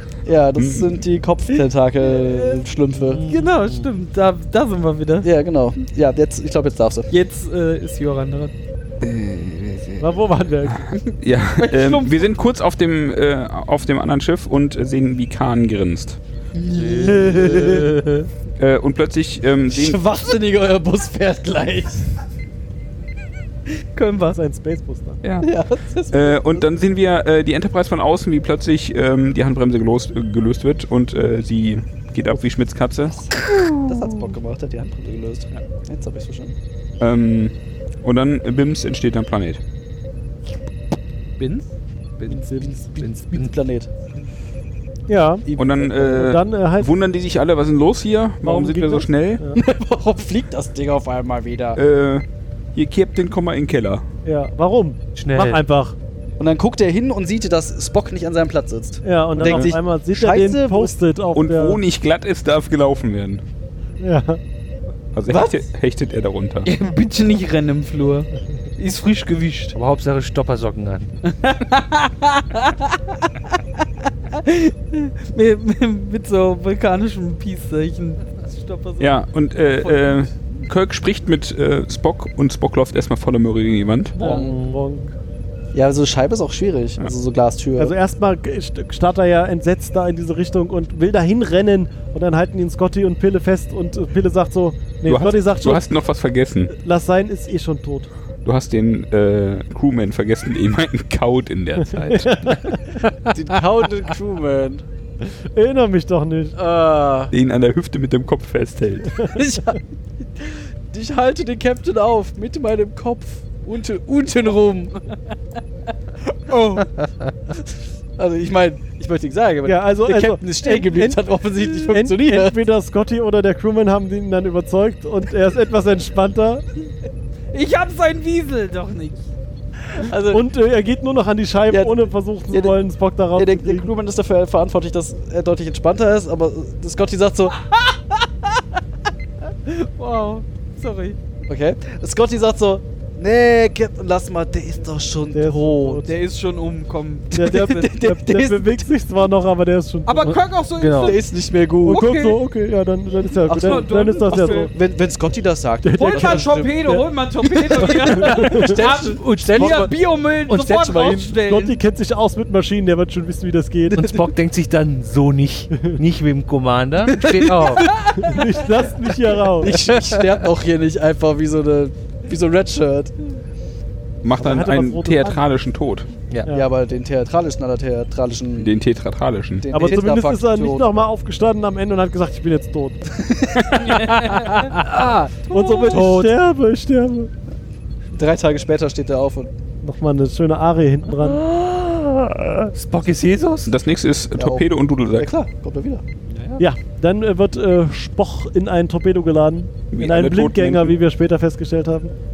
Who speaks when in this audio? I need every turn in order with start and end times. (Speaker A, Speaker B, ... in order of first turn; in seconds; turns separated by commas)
Speaker A: 0.2-3.2, Speaker B: 0.6-1.0, Speaker C: 2.1-2.6, Speaker D: 3.1-3.9, Speaker C: 3.3-5.3, Speaker A: 5.2-7.1, Speaker C: 7.1-8.5, Speaker B: 9.0-10.1, Speaker E: 10.0-10.9, Speaker B: 10.7-16.2, Speaker C: 11.6-12.2, Speaker A: 16.5-17.9, Speaker D: 16.7-18.2, Speaker E: 17.0-18.0, Speaker B: 18.6-20.0, Speaker A: 19.7-22.1, Speaker C: 23.9-24.4, Speaker E: 24.3-25.2, Speaker B: 25.2-25.5, Speaker A: 25.4-26.7, Speaker B: 26.1-33.2, Speaker A: 33.1-36.6, Speaker C: 33.4-34.3, Speaker B: 37.0-39.6, Speaker C: 41.4-41.7, Speaker A: 42.3-43.9, Speaker D: 43.0-43.5, Speaker E: 45.1-46.9, Speaker A: 45.5-46.1, Speaker B: 45.5-49.4, Speaker E: 48.4-49.6, Speaker A: 49.5-51.8, Speaker B: 51.8-54.0, Speaker E: 54.2-56.0, Speaker D: 55.2-55.6, Speaker A: 56.4-61.0, Speaker E: 59.0-61.8, Speaker B: 59.4-59.7, Speaker B: 61.3-63.4, Speaker E: 64.0-64.4, Speaker B: 65.1-66.7, Speaker A: 65.3-65.6, Speaker C: 66.6-69.8, Speaker D: 69.8-71.2, Speaker C: 71.3-79.2, Speaker B: 79.0-84.3, Speaker C: 79.8-80.3, Speaker E: 84.2-85.1, Speaker C: 84.2-84.5, Speaker D: 84.2-84.8, Speaker A: 85.7-88.0, Speaker E: 87.8-95.9, Speaker B: 95.0-96.7, Speaker E: 96.7-98.1, Speaker B: 98.4-102.7, Speaker E: 102.0-103.0, Speaker A: 103.3-104.8, Speaker E: 105.5-106.6, Speaker A: 106.6-107.3, Speaker B: 107.3-109.2, Speaker A: 109.3-115.0, Speaker C: 116.5-116.9, Speaker A: 118.2-122.6, Speaker E: 119.7-126.7, Speaker C: 127.5-129.3, Speaker A: 129.9-130.5, Speaker E: 130.3-133.9, Speaker A: 131.7-132.8, Speaker A: 133.3-137.6, Speaker C: 137.7-138.2, Speaker C: 139.7-141.2, Speaker A: 141.5-146.1, Speaker E: 145.3-146.1, Speaker C: 146.0-147.9, Speaker E: 147.3-150.4, Speaker A: 147.3-149.1, Speaker C: 150.1-151.2, Speaker D: 150.8-151.2, Speaker A: 150.9-152.1, Speaker C: 151.8-152.4, Speaker E: 151.9-154.7, Speaker A: 153.4-156.8, Speaker C: 153.5-154.7, Speaker E: 155.8-157.0, Speaker C: 156.0-161.8, Speaker A: 157.4-159.9, Speaker E: 157.8-158.8, Speaker D: 159.2-159.9, Speaker A: 160.5-161.3, Speaker E: 161.4-164.1, Speaker D: 163.9-167.9, Speaker A: 164.0-164.2, Speaker A: 167.2-167.8, Speaker C: 167.5-168.9, Speaker E: 168.2-169.8, Speaker A: 169.5-173.1, Speaker D: 169.7-170.2, Speaker B: 174.2-176.1, Speaker E: 174.3-175.4, Speaker A: 176.5-178.7, Speaker B: 178.6-179.7, Speaker A: 179.6-180.9, Speaker E: 179.7-183.1, Speaker A: 183.2-183.9, Speaker C: 183.8-184.7, Speaker D: 184.3-185.3, Speaker C: 185.5-186.0, Speaker E: 185.5-187.3, Speaker A: 185.9-186.3, Speaker A: 188.1-189.5, Speaker E: 189.8-191.4, Speaker D: 191.2-193.7, Speaker B: 193.7-195.3, Speaker A: 194.3-196.0, Speaker D: 196.3-196.6, Speaker E: 196.6-202.1, Speaker B: 199.9-200.9